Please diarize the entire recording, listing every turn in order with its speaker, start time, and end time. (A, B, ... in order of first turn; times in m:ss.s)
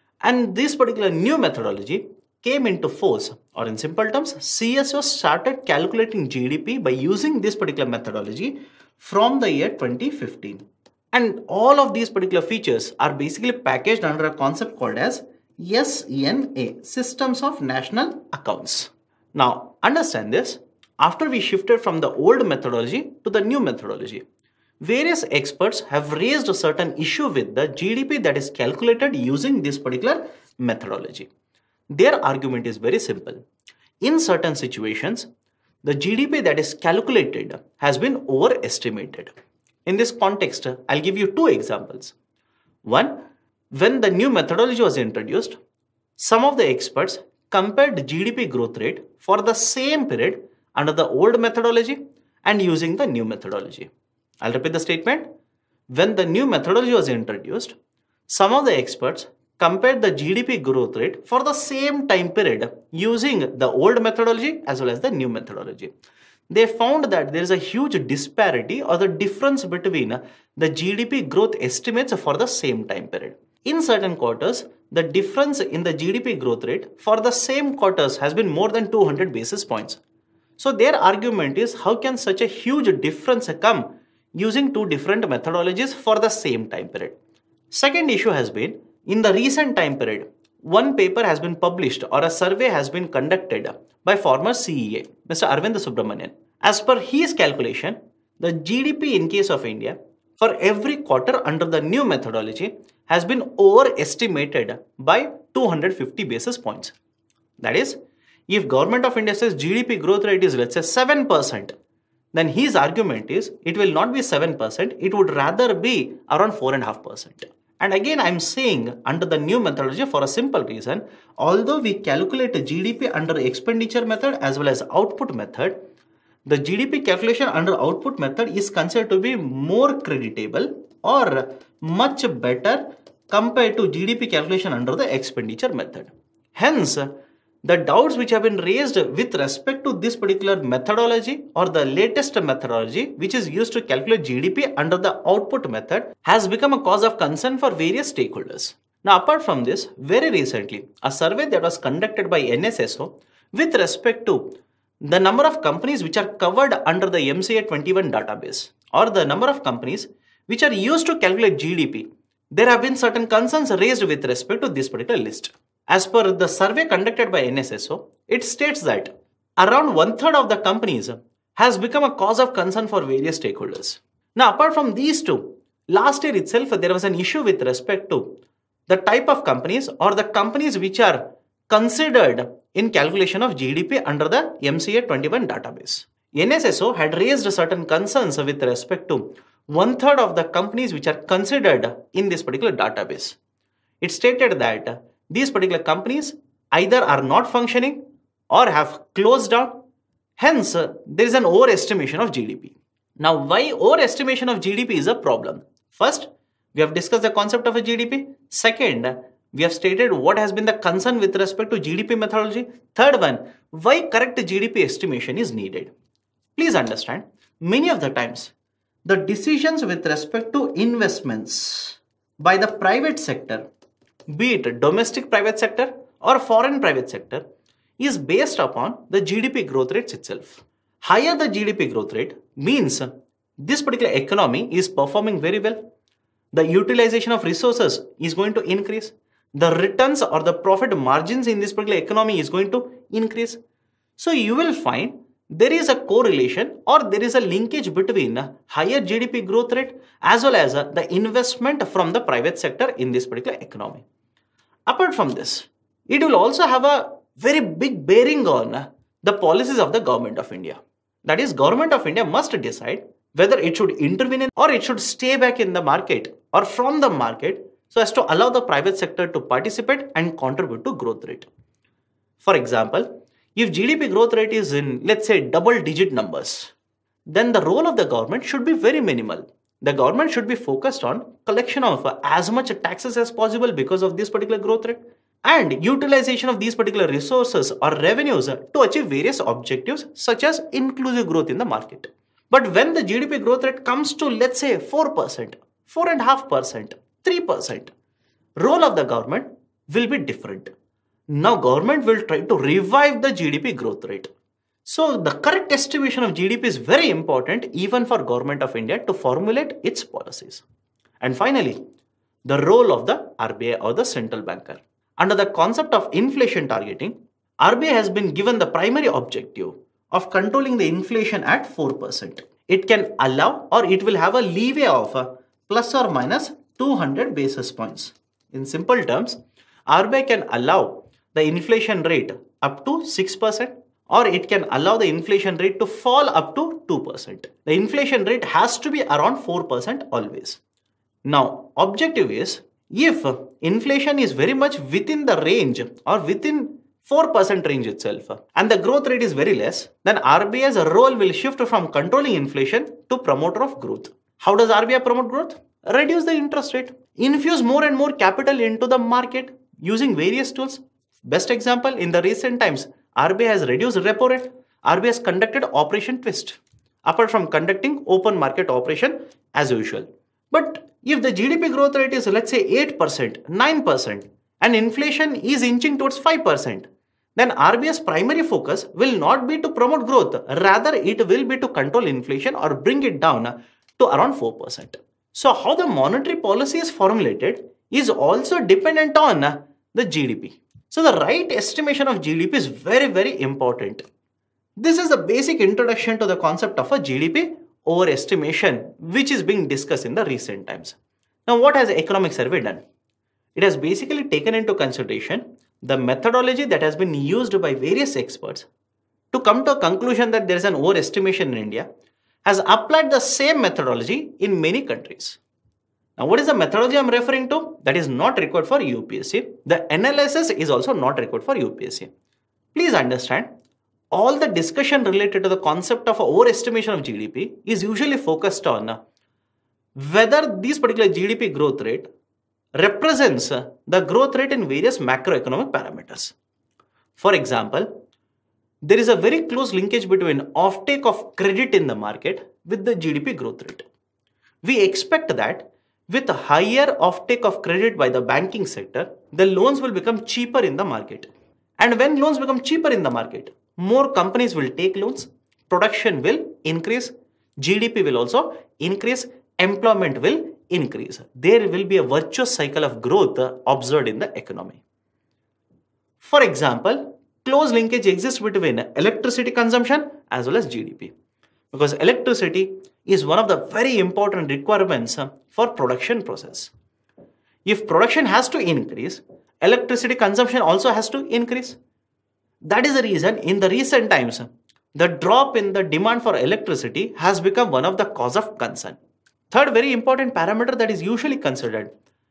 0:00.2-0:24.2 A
0:24.8-0:31.3 A
0:31.9-0:33.4 A
0:34.0-0:35.3 A
0:35.8-0:39.3 A
0:39.8-0:42.1 A
0:42.8-0:43.1 A
0:43.8-0:45.6 A
0:46.2-0:53.9 A
0:54.4-0:55.3 A
0:55.9-0:57.7 A
0:58.3-1:05.9 A
1:06.5-1:20.0 A
1:20.6-1:23.8 A
1:24.4-1:27.1 A
1:27.7-1:46.9 A
1:47.6-1:48.0 A
1:48.5-1:51.7 A
1:52.3-2:05.8 A
2:06.4-2:17.1 A
2:17.6-2:34.4 A
2:35.0-2:58.2 A
2:58.9-3:13.4 A
3:14.0-3:18.0 A
3:18.5-3:19.7 A
3:20.4-3:35.9 A
3:36.6-3:38.5 A
3:39.0-3:43.6 A
3:44.3-3:47.4 A
3:48.0-3:53.1 A
3:53.6-3:55.8 A
3:56.5-4:03.6 A
4:04.2-4:14.0 A
4:14.9-4:31.5 A
4:32.4-4:36.7 A
4:37.3-4:57.9 A
4:58.6-5:00.7 A
5:01.4-5:04.3 A
5:04.9-5:10.6 A
5:11.2-5:11.8 A
5:12.4-5:29.4 A
5:29.9-5:40.6 A
5:41.2-6:34.0 A
6:34.8-6:41.0 A
6:41.5-6:42.8 A
6:43.6-6:48.7 A
6:49.3-6:51.8 A
6:52.4-6:55.4 A
6:56.2-7:02.1 A
7:02.7-7:03.5 A
7:04.1-7:09.0 A
7:10.0-7:12.1 A
7:12.8-7:16.3 A
7:17.2-7:17.9 A
7:18.8-7:23.8 A
7:24.6-7:44.8 A
7:46.2-7:51.1 A
7:51.7-7:56.7 A
7:57.6-8:01.8 A
8:02.6-8:09.0 A
8:09.5-8:11.9 A